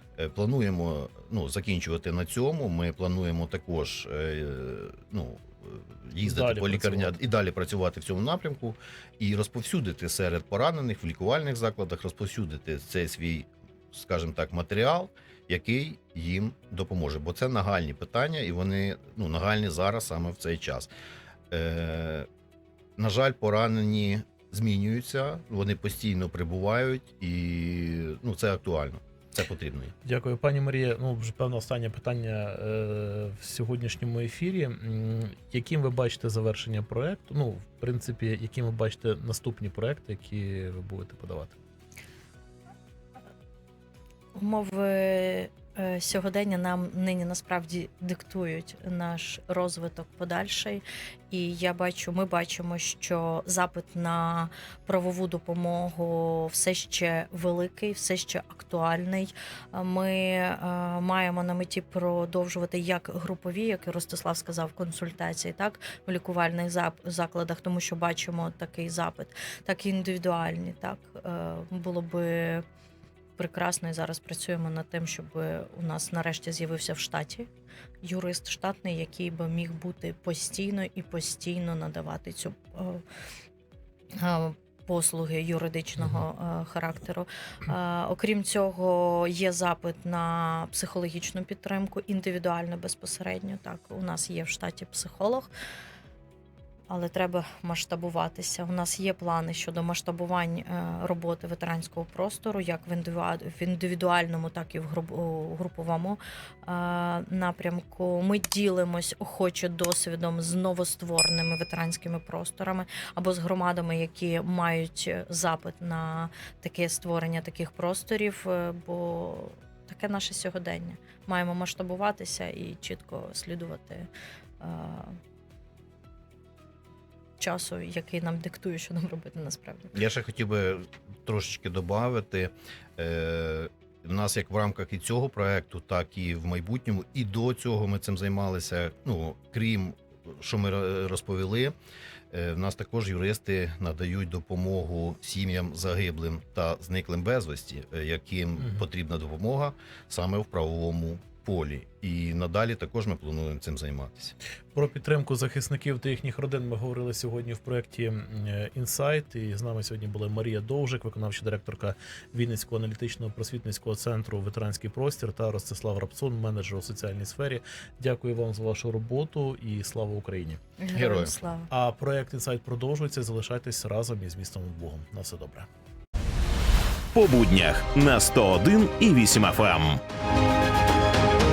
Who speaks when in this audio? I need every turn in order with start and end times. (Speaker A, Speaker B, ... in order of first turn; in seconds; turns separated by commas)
Speaker A: 0.2-20.9, Speaker B: 6.2-7.2, Speaker A: 21.5-22.3, Speaker A: 23.0-29.9, Speaker B: 30.1-41.6, Speaker C: 44.4-72.6, Speaker C: 73.4-77.5, Speaker C: 78.0-83.0, Speaker C: 84.2-95.5, Speaker C: 96.9-124.1, Speaker C: 124.6-125.2, Speaker C: 127.4-129.9, Speaker A: 129.9-141.7, Speaker A: 142.3-154.3, Speaker B: 148.6-148.8, Speaker B: 154.7-170.6, Speaker C: 170.8-171.7, Speaker A: 170.9-171.3, Speaker B: 171.7-175.7, Speaker D: 177.1-180.0